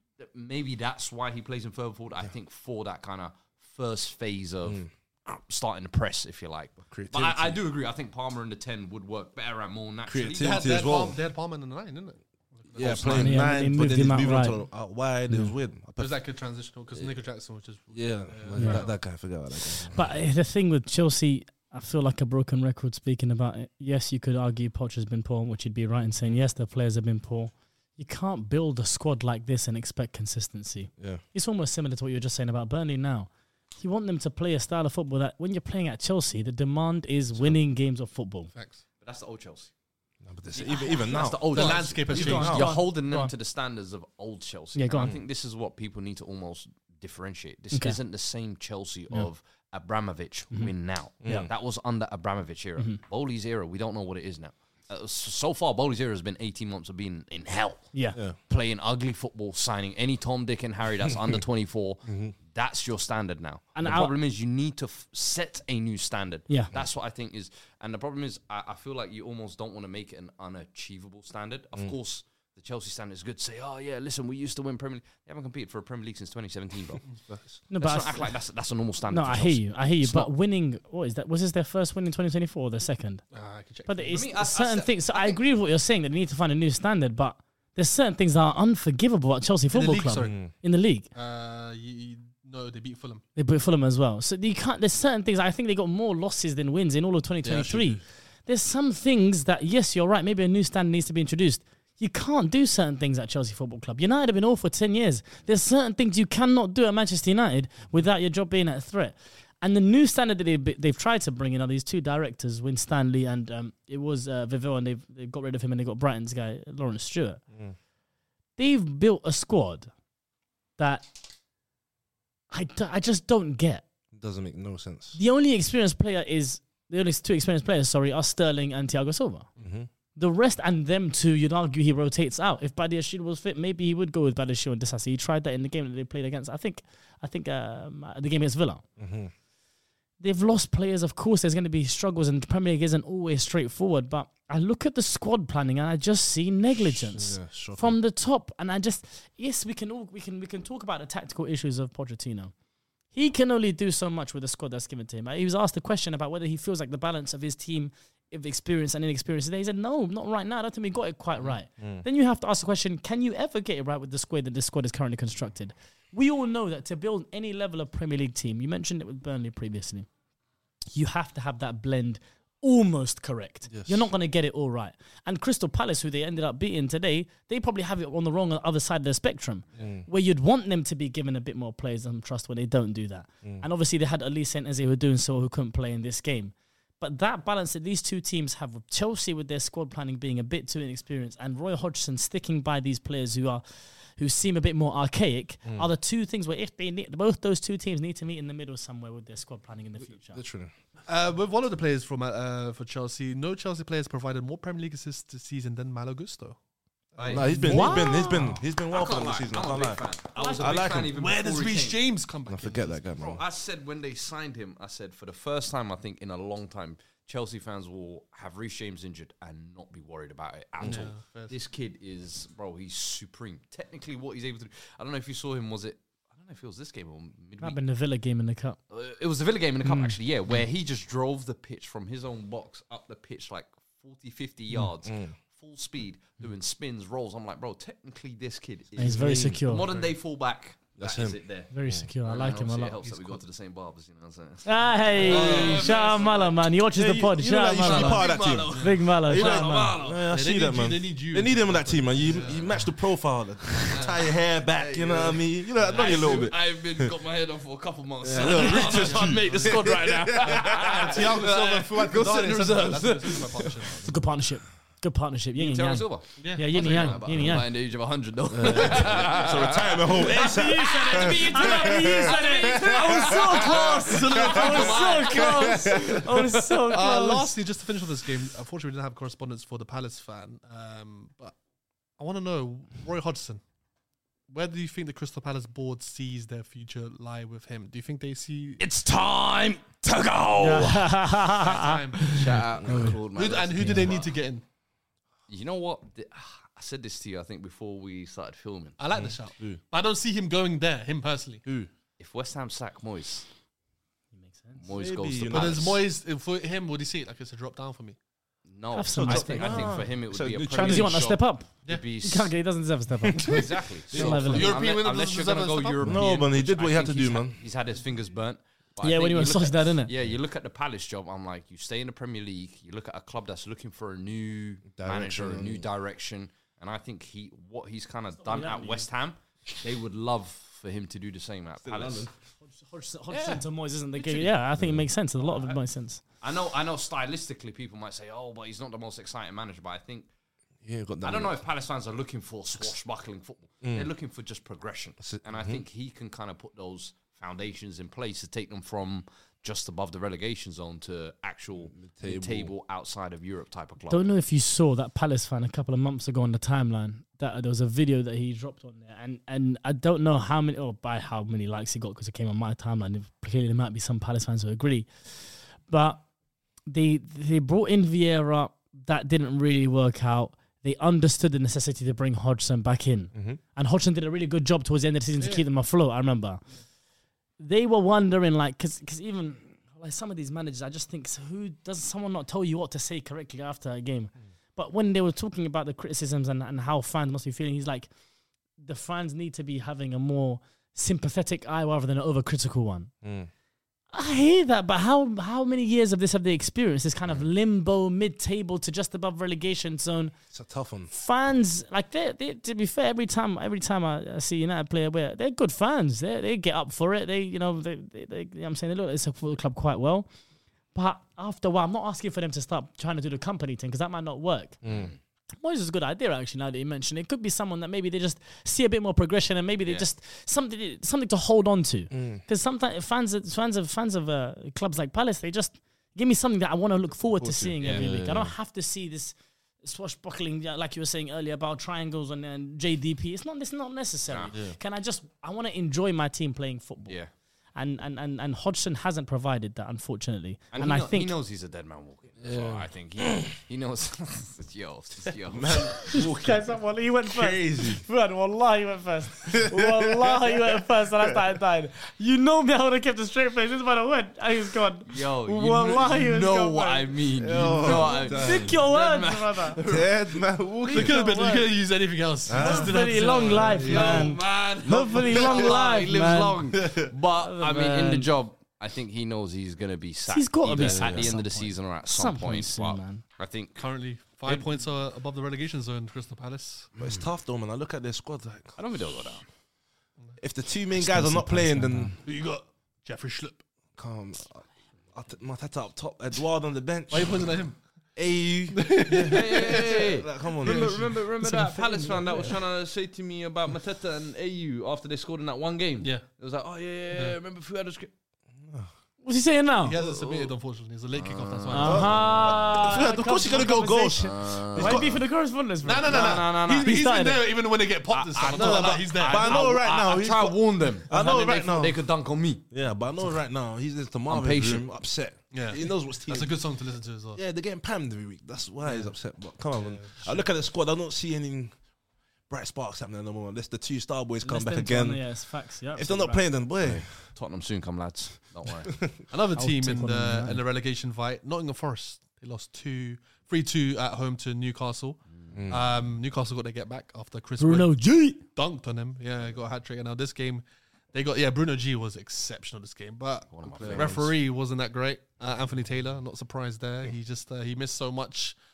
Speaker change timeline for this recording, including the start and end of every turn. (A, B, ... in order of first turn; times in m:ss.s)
0:00.2-0:10.6 A
0:06.9-0:07.6 B
0:10.1-0:11.2 B
0:10.4-0:13.5 C
0:12.8-0:16.2 B
0:13.1-0:14.6 D
0:16.0-0:19.0 C
0:17.9-0:20.0 B
0:18.6-0:18.8 D
0:19.9-0:38.5 D
0:38.5-0:38.8 C
0:39.0-0:39.7 A
0:40.2-0:42.7 B
0:40.5-1:17.0 A
0:41.5-0:42.7 C
0:42.1-0:43.3 D
0:44.8-0:45.1 D
0:47.7-0:48.0 D
0:51.2-0:51.5 B
0:57.9-0:58.2 D
1:02.1-1:02.4 B
1:03.8-1:04.1 D
1:17.3-1:17.6 B
1:17.7-1:18.4 D
1:17.8-1:20.3 A
1:19.1-1:23.2 D
1:23.3-1:24.2 C
1:23.9-1:31.1 D
1:24.1-1:25.4 A
1:29.7-1:30.4 C
1:30.2-1:30.5 B
1:31.1-1:33.2 C
1:33.4-1:57.4 D
1:37.5-1:37.8 C
1:58.6-1:59.9 D
2:00.8-2:01.2 D
2:02.5-2:03.8 D
2:04.1-2:05.2 B
2:05.2-2:09.5 D
2:09.6-2:09.9 B
2:10.2-2:18.8 D
2:19.0-2:19.3 B
2:20.2-2:32.5 D
2:26.8-2:28.0 B
2:33.1-2:50.1 D
2:41.8-2:42.0 B
2:50.9-3:13.6 D
2:53.7-2:54.0 B
2:59.8-3:00.1 B
3:14.2-3:20.4 D
3:20.0-3:20.7 B
3:21.1-3:26.6 C
3:27.2-3:28.3 C
3:27.2-3:28.0 A
3:27.3-3:30.0 B
3:27.5-3:28.6 D
3:28.9-3:32.0 A
3:30.4-3:30.7 D
3:30.6-3:31.1 B
3:31.1-3:33.0 C
3:32.5-3:33.4 B
3:33.2-3:47.8 A
3:40.8-3:41.5 C
3:47.6-3:48.8 D
3:48.9-4:01.7 A
3:49.8-3:50.2 D
3:55.0-3:55.4 B
3:59.0-3:59.9 D
3:59.0-3:59.6 B
3:59.8-4:00.1 C
4:01.0-4:02.1 B
4:01.7-4:03.1 D
4:02.2-4:06.6 A
4:04.6-4:10.0 D
4:05.2-4:05.9 C
4:06.9-4:17.1 B
4:07.8-4:10.3 A
4:10.3-4:12.8 C
4:13.9-4:23.9 A
4:15.9-4:16.3 C
4:18.2-4:22.6 B
4:18.8-4:19.7 C
4:20.6-4:24.0 C
4:24.0-4:27.7 D
4:25.6-4:36.8 A
4:26.4-4:27.4 C
4:28.5-4:33.4 B
4:30.2-4:37.6 D
4:33.3-4:35.2 C
4:35.5-4:36.2 B
4:36.9-4:41.6 C
4:42.2-4:43.6 C
4:44.5-4:48.8 C
4:48.8-4:51.2 A
4:50.6-4:52.4 D
4:51.5-4:52.5 C
4:52.3-4:54.3 A
4:52.8-4:53.2 B
4:52.9-4:53.2 D
4:53.3-4:54.6 C
4:53.8-4:54.1 D
4:55.5-4:59.0 A
4:59.0-5:01.6 C
4:59.1-4:59.8 B
5:01.6-5:01.9 B
5:02.2-5:03.5 A
5:04.3-5:04.8 D
5:04.8-5:06.0 A
5:04.9-5:06.0 B
5:05.5-5:08.2 C
5:08.7-5:12.5 A
5:08.9-5:10.1 D
5:09.2-5:11.3 B
5:10.7-5:11.7 D
5:12.2-5:14.7 D
5:13.5-5:32.3 A
5:14.1-5:14.8 B
5:14.3-5:16.2 C
5:16.0-5:17.6 B
5:19.0-5:20.1 D
5:24.9-5:25.9 B
5:28.4-5:29.1 D
5:31.8-5:32.3 B
5:32.7-5:36.2 D
5:33.3-5:33.6 A
5:34.2-5:34.5 A
5:34.8-5:35.1 B
5:35.5-5:35.8 A
5:36.4-5:40.3 A
5:40.8-5:41.6 B
5:41.2-5:54.3 A
5:43.8-5:44.1 B
5:45.2-5:45.8 B
5:51.9-5:52.7 B
5:54.1-6:06.2 D
6:06.9-6:16.6 D
6:13.3-6:13.6 B
6:15.4-6:15.6 C
6:17.6-6:28.1 D
6:28.8-6:33.1 D
6:33.2-6:33.5 B
6:34.1-6:40.3 D
6:40.5-6:41.1 B
6:41.1-6:50.3 D
6:50.9-6:54.8 D
6:54.8-6:55.1 B
6:54.9-6:55.2 A
6:55.6-7:17.2 D
7:02.1-7:02.4 B
7:07.4-7:08.6 B
7:17.8-7:21.4 D
7:20.7-7:26.0 A
7:22.4-7:22.9 B
7:25.5-7:26.7 B
7:26.0-7:37.1 D
7:27.3-7:28.0 B
7:29.5-7:30.6 B
7:35.1-7:40.1 A
7:37.4-7:38.8 B
7:37.8-7:39.8 D
7:39.8-7:41.2 B
7:40.9-7:41.7 D
7:40.9-7:44.4 C
7:42.5-7:43.9 B
7:42.6-7:46.7 D
7:43.8-7:53.8 A
7:45.4-7:45.7 B
7:46.8-7:47.1 B
7:47.3-7:48.3 D
7:50.3-7:53.2 D
7:50.8-7:51.3 B
7:53.8-7:56.9 C
7:57.0-7:58.8 B
7:58.8-7:59.4 A
8:00.4-8:02.2 B
8:00.9-8:02.2 D
8:02.2-8:03.6 C
8:04.0-8:07.5 B
8:07.1-8:07.8 C
8:08.2-8:11.0 B
8:08.7-8:10.0 C
8:09.2-8:18.1 A
8:10.6-8:11.0 C
8:11.4-8:12.5 D
8:18.6-8:18.9 B
8:19.2-8:20.0 D
8:19.8-8:22.4 C
8:20.0-8:20.5 A
8:21.2-8:22.2 A
8:21.7-8:27.4 D
8:21.8-8:25.2 B
8:24.2-8:25.1 A
8:25.8-8:29.7 C
8:26.0-8:27.0 A
8:28.1-8:32.6 A
8:28.5-8:32.0 B
8:32.7-8:36.5 B
8:34.3-8:34.9 A
8:35.5-8:37.4 C
8:37.4-8:41.8 B
8:39.8-8:40.4 C
8:42.5-8:45.3 B
8:44.4-8:46.4 D
8:46.0-8:47.2 B
8:46.8-8:49.0 A
8:48.9-8:49.2 B
8:49.3-9:08.6 C
8:49.6-8:50.6 D
8:55.3-8:55.6 A
8:55.5-8:55.9 B
8:57.6-8:58.4 D
9:03.5-9:04.2 A
9:03.8-9:04.3 B